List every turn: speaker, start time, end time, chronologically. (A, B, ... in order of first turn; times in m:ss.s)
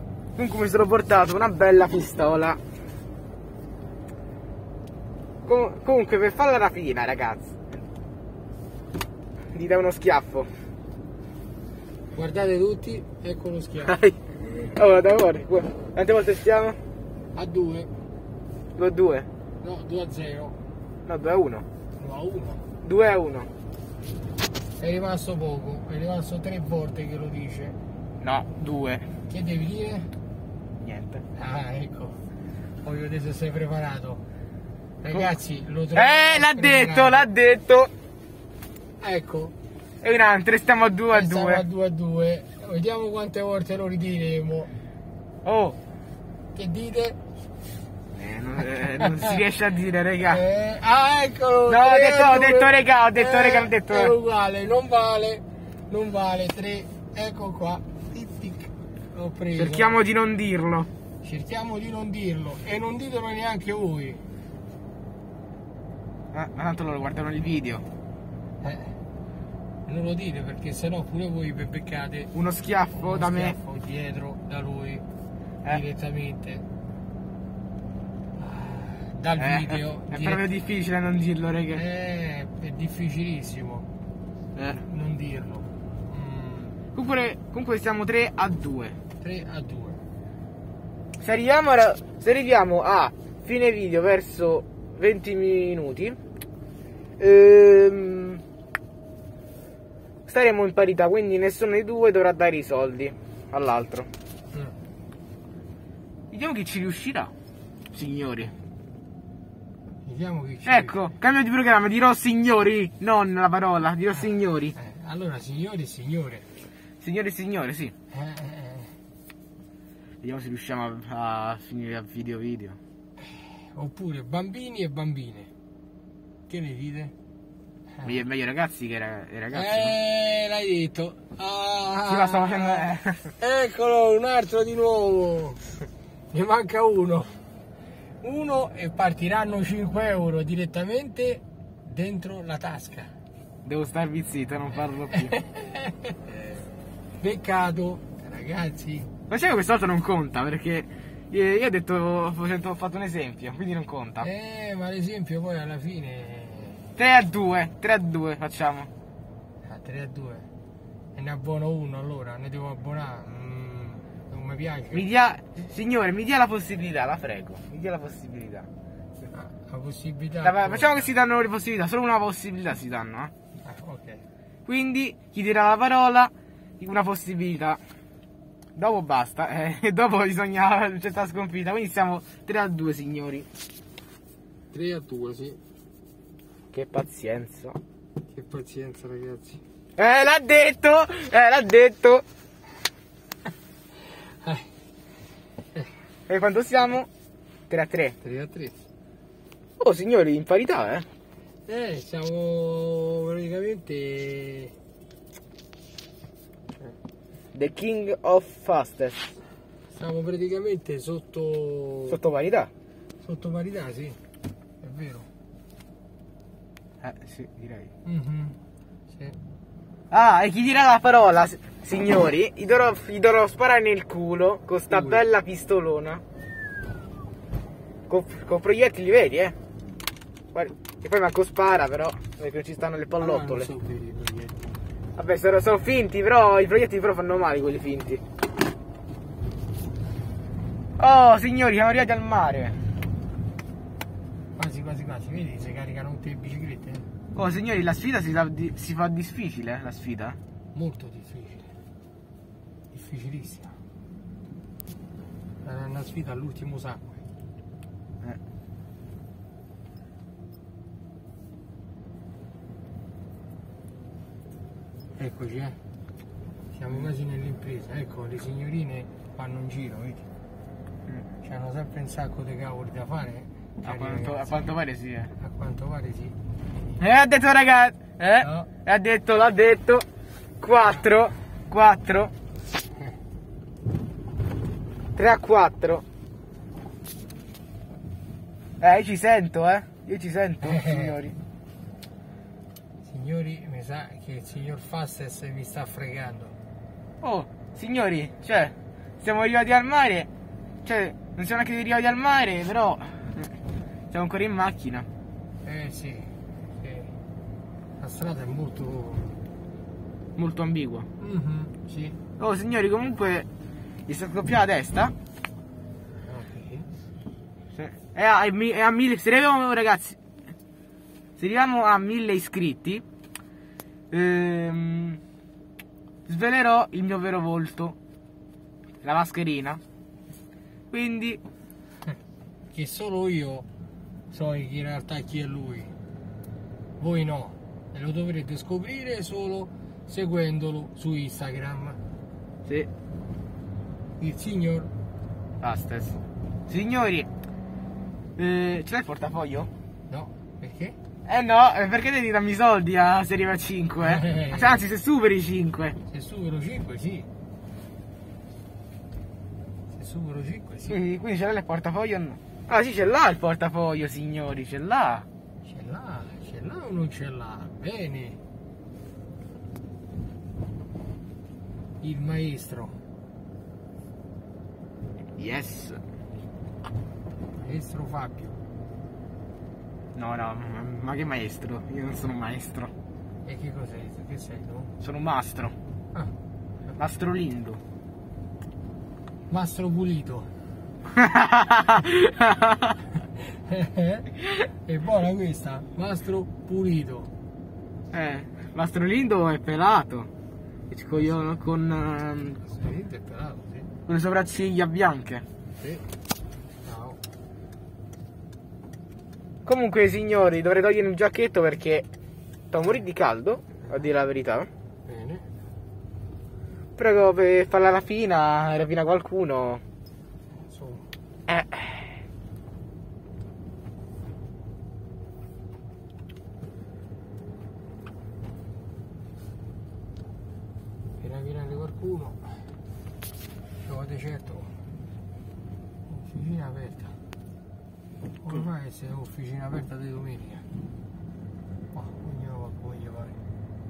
0:00.4-0:02.6 A
0:05.4-0:07.7 A
0:09.5-0:10.5 A
0:12.1-0:14.0 B
0:13.8-0:16.8 A
0:17.4-0:17.9 B
0:18.8-0:19.3 A
0:19.6-0:20.6 B
0:21.1-0:21.7 A
0:22.0-0:22.7 B
0:22.8-0:23.5 A
0:24.8-0:27.8 B
0:28.2-0:29.1 A
0:29.3-0:30.1 B
0:30.8-0:31.2 A
0:31.4-0:32.2 B
0:32.8-0:34.2 B
0:35.0-0:37.3 B
0:35.9-0:37.9 A
0:39.0-0:39.5 B
0:40.0-0:41.6 A
0:41.1-0:44.7 B
0:45.4-0:45.8 A
0:46.5-0:47.2 B
0:48.1-0:50.4 A
0:49.0-0:49.4 B
0:50.3-1:00.0 B
0:51.7-0:54.2 A
0:59.6-1:00.9 A
1:01.2-1:04.2 B
1:06.3-1:07.8 A
1:08.6-1:09.0 B
1:09.9-1:12.3 B
1:12.3-1:13.6 A
1:12.9-1:15.0 B
1:15.7-1:16.7 B
1:18.4-1:20.4 B
1:19.4-1:21.8 A
1:21.7-1:23.9 B
1:24.6-1:24.8 A
1:24.7-1:26.8 B
1:27.0-1:29.0 A
1:29.2-1:30.0 B
1:31.2-1:36.2 A
1:37.2-1:38.4 A
1:40.3-1:44.1 A
1:44.5-1:44.8 B
1:46.3-1:47.3 A
1:47.9-1:48.5 A
1:50.0-1:51.1 B
1:50.6-1:54.8 A
1:54.2-1:56.5 B
1:57.0-1:57.9 A
1:58.1-1:59.0 B
2:00.2-2:02.8 A
2:03.2-2:05.5 B
2:06.5-2:07.1 B
2:08.0-2:10.0 A
2:09.5-2:15.6 B
2:12.1-2:13.3 A
2:16.3-2:17.4 B
2:18.2-2:23.1 B
2:23.6-2:25.4 A
2:25.1-2:26.5 B
2:27.2-2:29.1 B
2:29.3-2:34.3 A
2:34.2-2:36.9 B
2:37.0-2:38.9 A
2:39.6-2:40.5 B
2:41.2-2:45.0 B
2:44.9-2:48.7 A
2:49.3-2:51.1 B
2:50.4-2:53.3 A
2:53.6-2:54.2 B
2:54.7-2:57.8 A
2:58.8-3:03.5 A
3:04.7-3:05.6 B
3:06.7-3:07.8 A
3:08.3-3:09.6 B
3:10.0-3:12.2 A
3:14.1-3:14.7 B
3:16.3-3:17.1 A
3:17.7-3:18.2 A
3:18.2-3:18.8 B
3:19.8-3:21.1 A
3:21.7-3:24.7 B
3:27.5-3:29.4 A
3:29.9-3:32.2 B
3:32.1-3:32.7 A
3:33.2-3:34.2 B
3:34.8-3:35.3 B
3:37.0-3:37.9 A
3:38.0-3:38.6 B
3:39.1-3:39.4 B
3:40.1-3:46.2 A
3:44.9-3:45.2 B
3:48.1-3:49.6 A
3:50.5-3:53.7 A
3:53.2-3:54.8 B
3:55.2-3:58.2 A
4:01.0-4:02.8 A
4:04.6-4:07.1 B
4:07.4-4:10.4 A
4:10.7-4:11.7 B
4:12.9-4:13.8 B
4:15.6-4:17.2 B
4:25.2-4:25.8 B
4:26.7-4:30.2 B
4:31.4-4:34.6 B
4:33.8-4:35.3 A
4:35.4-4:36.4 B
4:37.0-4:40.0 A
4:38.4-4:38.7 B
4:40.6-4:42.3 A
4:45.2-4:46.0 A
4:48.8-4:51.4 A
4:50.6-4:51.1 B
4:53.0-4:56.6 B
4:57.2-5:00.3 A
5:00.8-5:03.5 A
5:04.1-5:05.1 A
5:05.6-5:07.1 B
5:08.0-5:09.4 B
5:10.4-5:11.1 A
5:11.2-5:12.2 B
5:12.4-5:13.5 A
5:14.1-5:15.1 A
5:16.1-5:17.0 B
5:17.8-5:20.2 A
5:21.4-5:23.0 A
5:24.1-5:25.2 A
5:26.3-5:28.0 A
5:29.0-5:29.8 A
5:30.9-5:31.4 A
5:32.7-5:33.7 B
5:34.3-5:35.9 B
5:37.0-5:42.0 B
5:44.2-5:44.9 B
5:45.6-5:47.3 A
5:48.4-5:49.7 A
5:50.1-5:51.0 B
5:51.3-5:56.0 A
5:54.0-5:54.8 B
5:56.1-5:57.3 B
5:59.9-6:01.0 B
6:00.9-6:05.3 A
6:05.6-6:08.4 B
6:12.0-6:13.0 B
6:15.4-6:16.0 A
6:17.6-6:18.6 B
6:20.2-6:22.9 A
6:23.4-6:24.9 B
6:25.0-6:25.8 A
6:27.0-6:27.8 A
6:29.5-6:30.5 B
6:31.1-6:32.9 A
6:33.4-6:37.3 B
6:38.1-6:40.3 A
6:40.9-6:42.6 A
6:42.6-6:43.9 B
6:44.1-6:45.4 A
6:45.8-6:46.0 B
6:46.8-6:47.2 B
6:49.6-6:52.1 A
6:52.7-6:54.7 A
6:55.1-6:55.5 B
6:57.0-6:59.8 A
7:00.5-7:01.1 B
7:01.5-7:02.1 A
7:11.2-7:12.7 B
7:13.8-7:14.8 B
7:16.1-7:17.2 B
7:18.4-7:20.7 B
7:21.9-7:23.4 B